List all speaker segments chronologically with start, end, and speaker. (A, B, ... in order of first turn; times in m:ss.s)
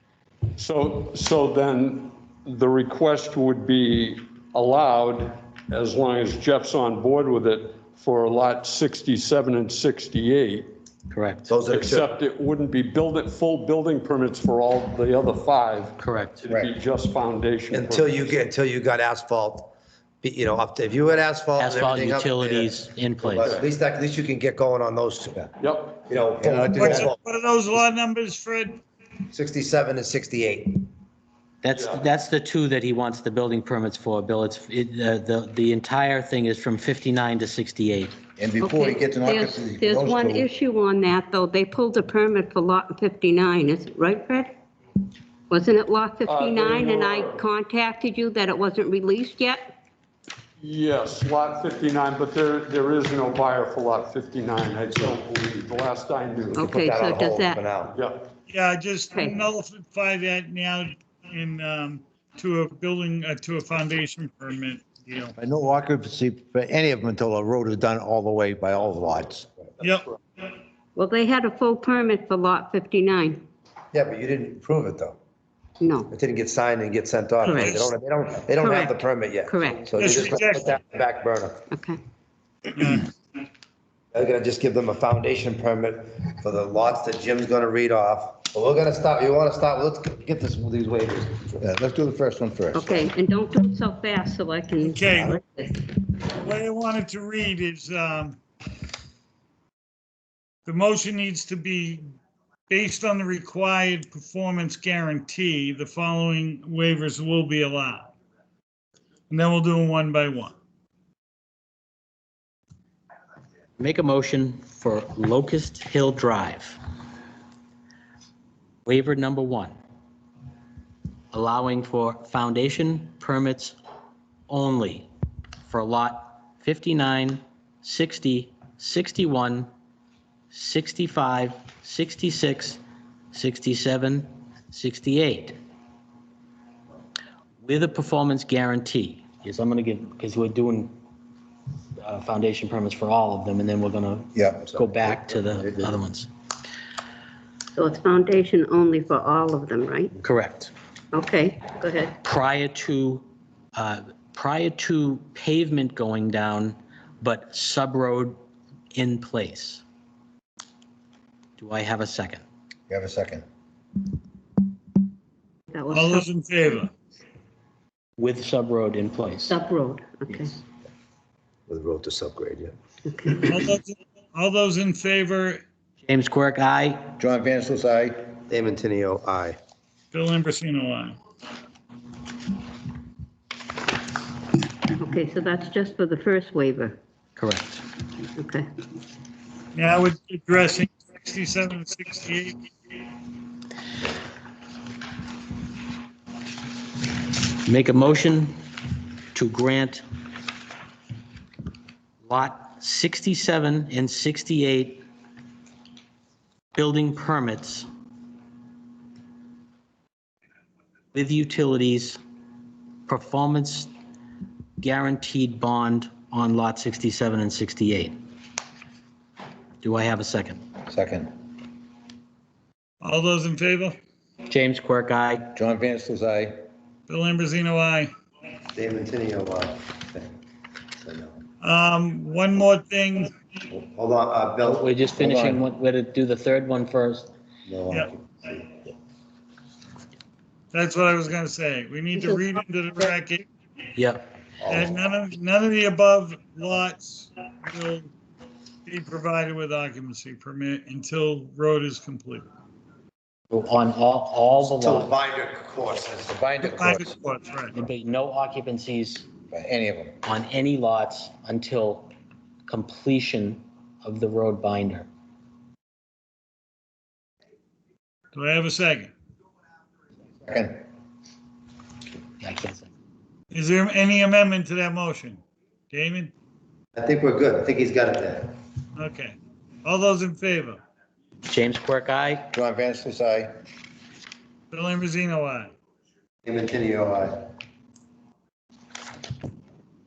0:00.6-0:10.7 A
0:11.1-0:11.5 B
0:11.5-0:12.1 C
0:11.7-0:18.4 A
0:16.0-0:16.4 B
0:17.7-0:25.5 C
0:21.6-0:23.5 B
0:23.4-0:23.7 A
0:25.6-0:26.1 A
0:26.1-0:27.2 C
0:26.4-0:27.0 D
0:26.8-0:28.8 E
0:29.3-0:30.9 C
0:31.6-0:38.2 B
0:31.7-0:32.0 A
0:38.4-0:40.5 D
0:38.6-0:44.6 F
0:45.5-0:49.7 F
0:46.2-0:47.4 A
0:50.6-0:56.9 A
0:56.6-0:57.7 F
0:56.7-0:58.0 C
0:57.9-0:58.3 A
0:58.5-1:05.3 E
0:59.1-0:59.4 F
1:05.4-1:09.5 D
1:09.8-1:10.1 E
1:11.0-1:13.4 F
1:13.9-1:15.2 C
1:15.8-1:16.1 F
1:16.1-1:21.6 C
1:17.4-1:17.8 F
1:17.5-1:17.9 E
1:18.6-1:19.9 F
1:20.0-1:20.8 E
1:21.7-1:22.0 F
1:22.8-1:23.1 E
1:24.1-1:31.6 C
1:31.6-1:32.8 D
1:32.7-1:35.9 F
1:34.8-1:35.4 E
1:36.4-1:38.4 E
1:40.7-1:42.1 E
1:42.7-1:48.1 E
1:49.3-1:50.6 E
1:53.8-1:56.8 B
1:58.9-1:59.8 B
2:01.3-2:03.8 B
2:04.5-2:05.1 B
2:05.6-2:09.7 B
2:10.5-2:12.8 B
2:13.3-2:15.6 B
2:17.6-2:20.9 B
2:22.0-2:26.3 B
2:24.4-2:24.9 D
2:27.7-2:30.2 F
2:30.2-2:30.7 B
2:31.1-2:32.2 F
2:32.2-2:38.4 B
2:38.9-2:39.8 B
2:41.6-2:42.4 B
2:42.9-2:43.4 D
2:45.7-2:46.3 F
2:45.9-2:46.9 E
2:48.2-2:49.6 B
2:49.5-2:50.6 F
2:51.7-2:52.7 C
2:53.0-2:53.6 F
2:53.4-2:55.6 E
2:56.0-2:57.1 B
2:57.2-2:58.3 D
2:58.5-2:59.6 C
3:00.1-3:01.2 E
3:04.9-3:07.0 F
3:07.4-3:07.8 B
3:08.4-3:08.7 F
3:09.8-3:12.6 E
3:17.6-3:18.5 B
3:19.3-3:20.0 B
3:22.2-3:25.0 B
3:26.8-3:27.9 B
3:31.1-3:32.2 B
3:33.1-3:33.9 B
3:34.8-3:38.2 B
3:39.8-3:40.6 B
3:40.9-3:41.3 D
3:43.0-3:44.0 E
3:44.5-3:45.5 B
3:45.6-3:46.6 D
3:47.1-3:48.1 E
3:48.8-3:50.3 C
3:51.0-3:51.4 C
3:51.6-3:53.3 E
3:53.7-3:54.9 C
3:54.6-3:57.3 B
3:55.2-3:55.6 D
3:57.7-3:58.7 C
4:00.7-4:03.4 E
4:04.0-4:04.3 B
4:04.7-4:04.9 C
4:04.7-4:08.1 E
4:08.9-4:12.5 E
4:13.5-4:15.1 B
4:14.6-4:16.4 C
4:16.3-4:17.1 D
4:16.6-4:17.8 E
4:17.7-4:19.3 B
4:19.5-4:20.2 D
4:20.2-4:22.1 B
4:22.7-4:25.1 B
4:28.4-4:29.1 E
4:30.4-4:30.8 D
4:32.4-4:32.9 B
4:33.5-4:35.4 E
4:35.9-4:36.3 E
4:37.0-4:38.5 C
4:39.0-4:40.8 E
4:41.5-4:42.5 B
4:42.5-4:43.5 D
4:44.7-4:45.7 E
4:46.4-4:47.4 C